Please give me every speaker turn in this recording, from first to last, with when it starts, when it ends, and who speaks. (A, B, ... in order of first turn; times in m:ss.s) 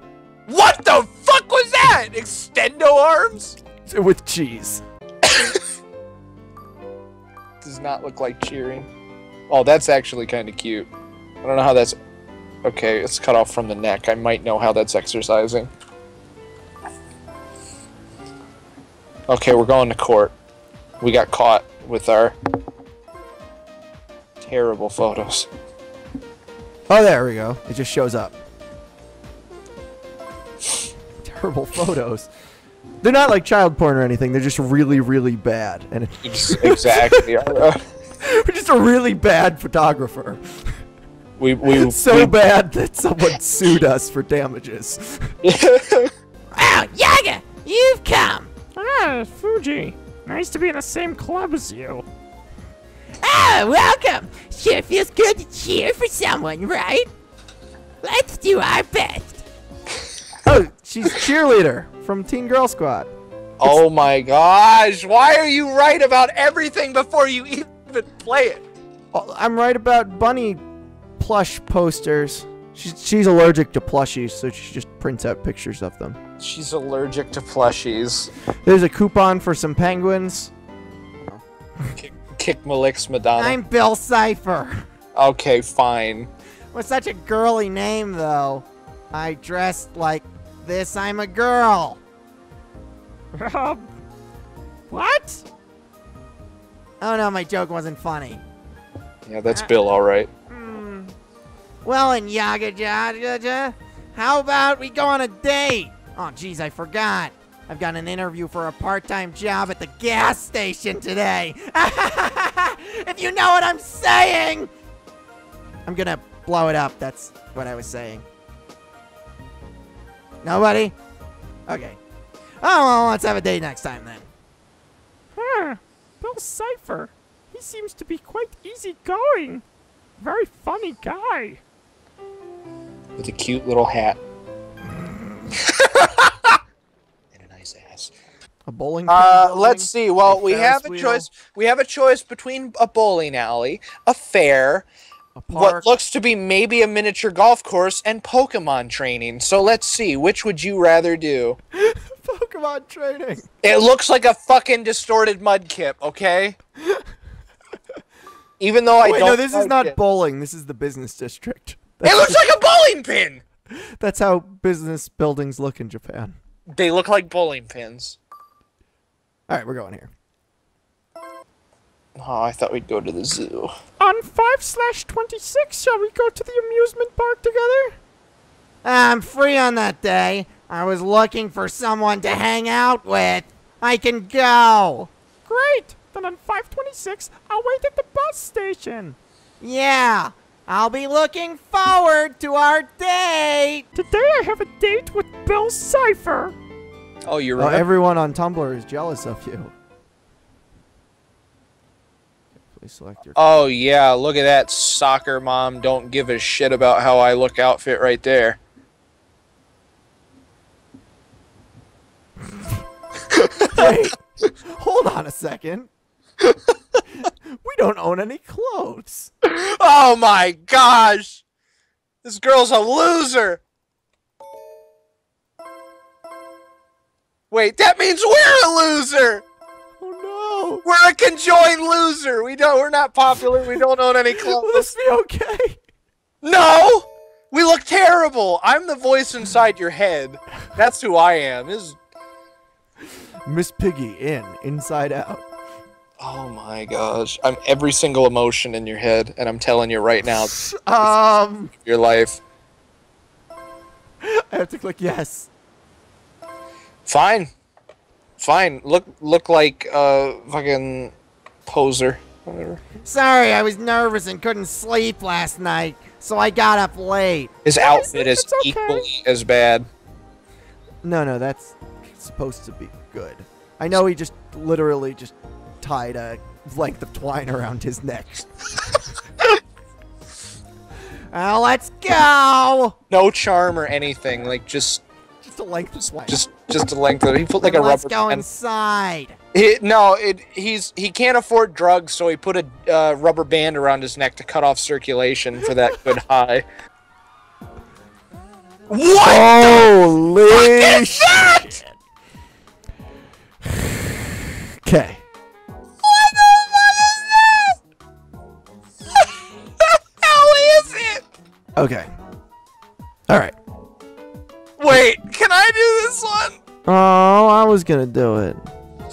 0:00.5-0:03.6 A
0:03.9-0:04.8 B
0:05.2-0:05.6 A
0:07.6-0:08.9 A
0:09.5-0:10.9 A
0:11.4-0:12.0 A
0:12.6-0:15.7 A
0:19.3-0:20.3 A
0:21.0-0:22.4 A
0:24.4-0:25.5 A
0:26.9-0:28.4 B
0:31.2-0:32.3 B
0:33.0-0:37.3 B
0:36.2-0:37.8 A
0:38.2-0:40.7 B
0:41.4-0:42.4 A
0:41.8-0:45.3 B
0:45.4-0:46.1 A
0:46.6-0:48.5 C
0:48.7-0:52.1 D
0:53.2-0:57.1 C
0:58.0-0:59.4 C
1:00.4-1:03.1 B
1:03.6-1:08.6 A
1:09.1-1:10.6 B
1:11.2-1:16.2 B
1:16.4-1:18.3 A
1:18.6-1:20.5 B
1:22.0-1:23.6 A
1:23.4-1:24.8 B
1:25.2-1:26.3 A
1:26.7-1:32.0 B
1:33.3-1:33.9 D
1:34.9-1:35.4 D
1:37.0-1:38.4 B
1:39.3-1:40.3 A
1:40.5-1:41.1 B
1:41.8-1:54.7 B
1:55.9-1:58.2 B
2:00.4-2:01.0 B
2:01.7-2:02.0 B
2:02.6-2:04.3 B
2:05.4-2:09.6 D
2:10.2-2:11.6 D
2:13.2-2:14.2 A
2:15.6-2:16.6 A
2:17.3-2:18.1 A
2:18.7-2:21.3 B
2:19.1-2:24.9 A
2:25.4-2:25.8 B
2:25.5-2:31.6 A
2:31.7-2:33.5 B
2:33.6-2:36.6 A
2:38.6-2:40.0 A
2:39.0-2:42.4 B
2:42.0-2:43.4 A
2:43.7-2:46.4 B
2:46.7-2:48.2 A
2:49.5-2:50.1 B
2:52.2-2:53.7 A
2:54.0-2:58.0 D
2:58.8-3:05.1 B
3:05.5-3:09.2 D
3:09.6-3:13.9 B
3:14.0-3:16.6 D
3:17.2-3:17.9 A
3:17.6-3:19.7 B
3:22.7-3:23.6 B
3:23.4-3:28.6 A
3:33.4-3:33.9 A
3:33.7-3:35.9 B
3:37.6-3:39.3 B
3:39.4-3:41.4 A
3:42.2-3:43.6 A
3:47.5-3:49.4 A
3:50.0-3:50.8 B
3:50.8-3:54.9 A
3:54.3-3:55.8 B
3:56.4-4:02.0 A
4:03.5-4:05.4 B
4:06.2-4:11.2 A
4:10.4-4:11.7 B
4:11.7-4:12.4 A
4:14.2-4:15.5 B
4:17.1-4:17.5 A
4:18.4-4:21.1 A
4:21.7-4:22.8 A
4:23.0-4:27.6 B
4:27.6-4:29.9 A
4:27.8-4:29.1 D
4:31.0-4:38.6 B
4:41.3-4:43.0 B
4:43.1-4:45.0 A
4:45.4-4:46.4 B
4:46.3-4:48.5 A
4:47.6-4:49.4 B
4:49.5-4:56.7 A
4:58.9-4:59.9 A
4:59.2-5:01.8 B
5:00.5-5:01.8 A
5:04.8-5:05.2 B
5:06.0-5:07.8 A
5:09.8-5:11.2 A
5:11.8-5:12.1 B
5:13.3-5:13.6 B
5:14.8-5:16.6 A
5:16.9-5:18.7 B